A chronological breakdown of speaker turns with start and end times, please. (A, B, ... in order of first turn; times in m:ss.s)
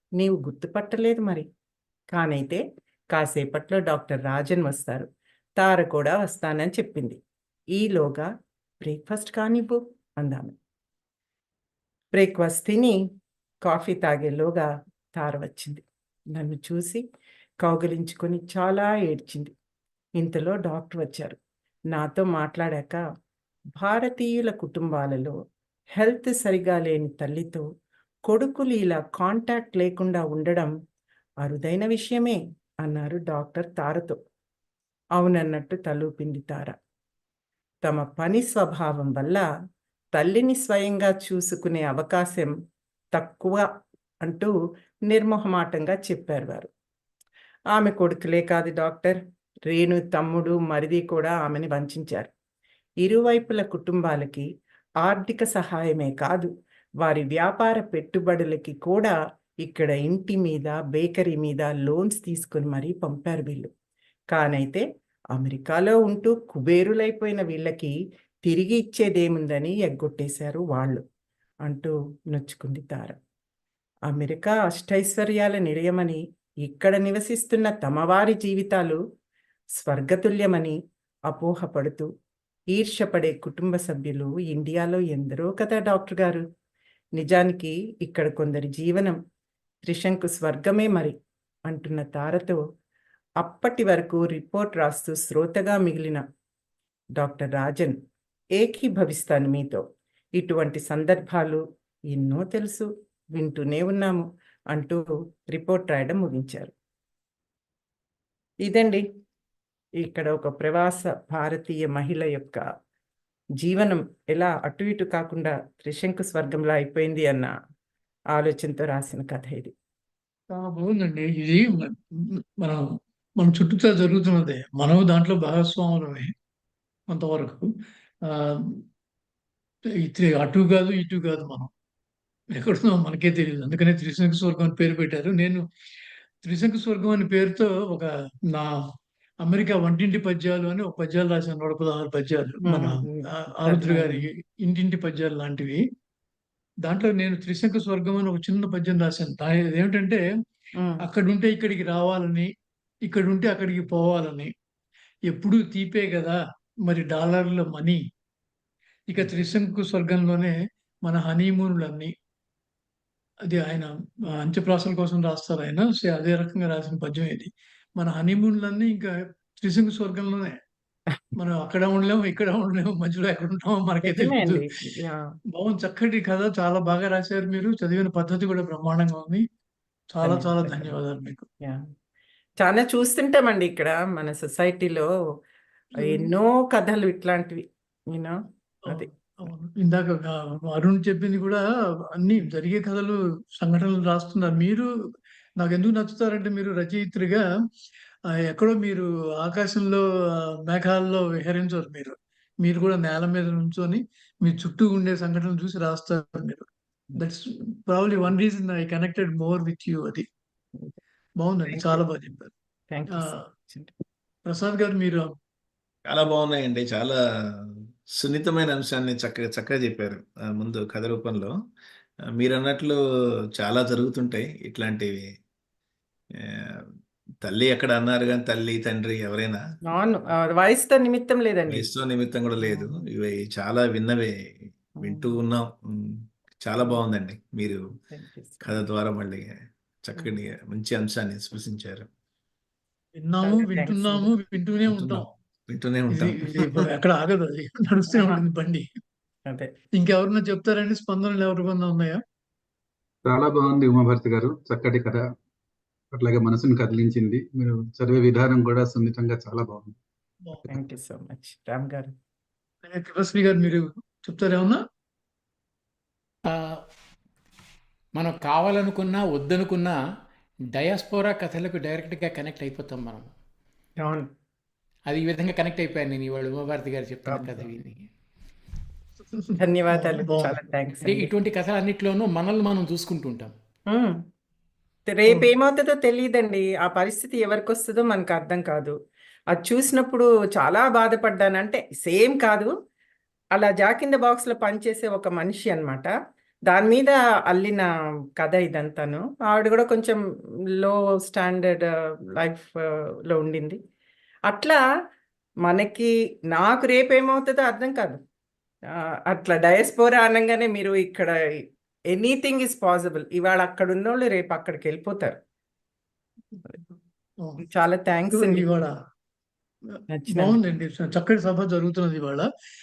0:00.2-0:01.5 A
0:02.1-0:02.6 A
0:03.1-0:05.1 A
0:05.6-0:07.2 A
0:07.8-0:08.3 A
0:08.8-0:10.6 A
0:12.1-0:13.0 A
0:13.7-0:17.0 A
0:17.6-0:19.5 A
0:20.2-0:21.4 A
0:21.9-0:23.0 A
0:23.8-0:25.4 A
0:26.0-0:27.6 A
0:28.3-0:30.7 A
0:31.4-0:34.2 A
0:35.2-0:36.8 A
0:37.8-0:39.4 A
0:40.2-0:42.5 A
0:43.2-0:43.7 A
0:44.2-0:44.5 A
0:45.1-0:46.7 A
0:47.8-0:52.3 A
0:53.0-0:54.5 A
0:55.0-0:56.5 A
0:57.0-1:03.7 A
1:04.3-1:08.0 A
1:08.5-1:11.0 A
1:11.7-1:13.2 A
1:14.1-1:19.0 A
1:19.8-1:20.8 A
1:21.3-1:22.1 A
1:22.7-1:26.4 A
1:27.2-1:29.2 A
1:29.9-1:31.2 A
1:31.7-1:32.6 A
1:33.4-1:36.2 A
1:37.2-1:38.0 A
1:38.6-1:39.8 A
1:40.4-1:41.6 A
1:42.1-1:46.7 A
1:48.6-1:49.0 A
1:50.0-1:52.6 A
1:53.6-1:57.5 A
1:58.4-1:59.7 A
2:00.5-2:02.8 B
2:03.4-2:06.3 B
2:07.1-2:07.7 B
2:08.3-2:08.8 B
2:10.0-2:11.7 B
2:12.5-2:15.6 B
2:16.4-2:18.7 B
2:19.4-2:25.8 B
2:22.6-2:24.3 A
2:26.8-2:30.2 B
2:30.8-2:31.0 A
2:31.0-2:32.5 B
2:33.0-2:34.5 B
2:35.3-2:38.0 B
2:39.1-2:42.1 B
2:43.5-2:50.5 B
2:51.4-2:54.6 B
2:54.0-2:55.2 A
2:55.5-2:59.4 B
3:00.1-3:01.4 B
3:00.2-3:00.9 A
3:02.6-3:05.1 A
3:06.0-3:06.3 B
3:06.0-3:08.4 A
3:08.9-3:11.6 B
3:12.2-3:14.9 B
3:15.6-3:17.4 B
3:18.4-3:30.3 B
3:31.4-3:32.5 B
3:31.7-3:32.0 A
3:32.9-3:33.9 A
3:33.1-3:33.4 B
3:34.5-3:35.3 B
3:36.1-3:37.6 C
3:38.2-3:41.5 C
3:42.4-3:43.0 C
3:43.6-3:45.3 C
3:46.4-3:46.7 C
3:47.4-3:49.6 C
3:49.9-3:51.8 A
3:51.7-3:57.8 C
3:52.6-3:53.0 A
3:55.0-3:55.4 A
3:58.1-3:58.7 A
3:58.6-3:59.5 C
4:00.1-4:02.1 C
4:03.2-4:05.3 B
4:03.4-4:04.3 A
4:04.9-4:06.7 C
4:06.1-4:08.8 B
4:08.1-4:08.4 A
4:10.0-4:12.2 B
4:13.2-4:15.2 D
4:16.1-4:20.0 D
4:20.7-4:22.1 A
4:22.8-4:24.8 B
4:26.5-4:26.8 E
4:28.2-4:30.0 E
4:30.7-4:33.3 E
4:34.0-4:34.3 A
4:35.1-4:38.0 E
4:37.3-4:37.6 A
4:39.3-4:40.6 B
4:39.6-4:41.3 A
4:41.0-4:43.5 E
4:43.9-4:44.2 A
4:45.1-4:49.0 A
4:49.5-4:52.7 A
4:53.6-4:56.1 A
4:56.7-4:57.9 A
4:58.4-5:00.2 A
5:00.8-5:03.8 A
5:04.5-5:04.8 A
5:05.7-5:08.2 A
5:09.3-5:15.4 A
5:17.6-5:18.6 A
5:18.3-5:18.9 B
5:19.9-5:22.5 B
5:20.1-5:20.6 A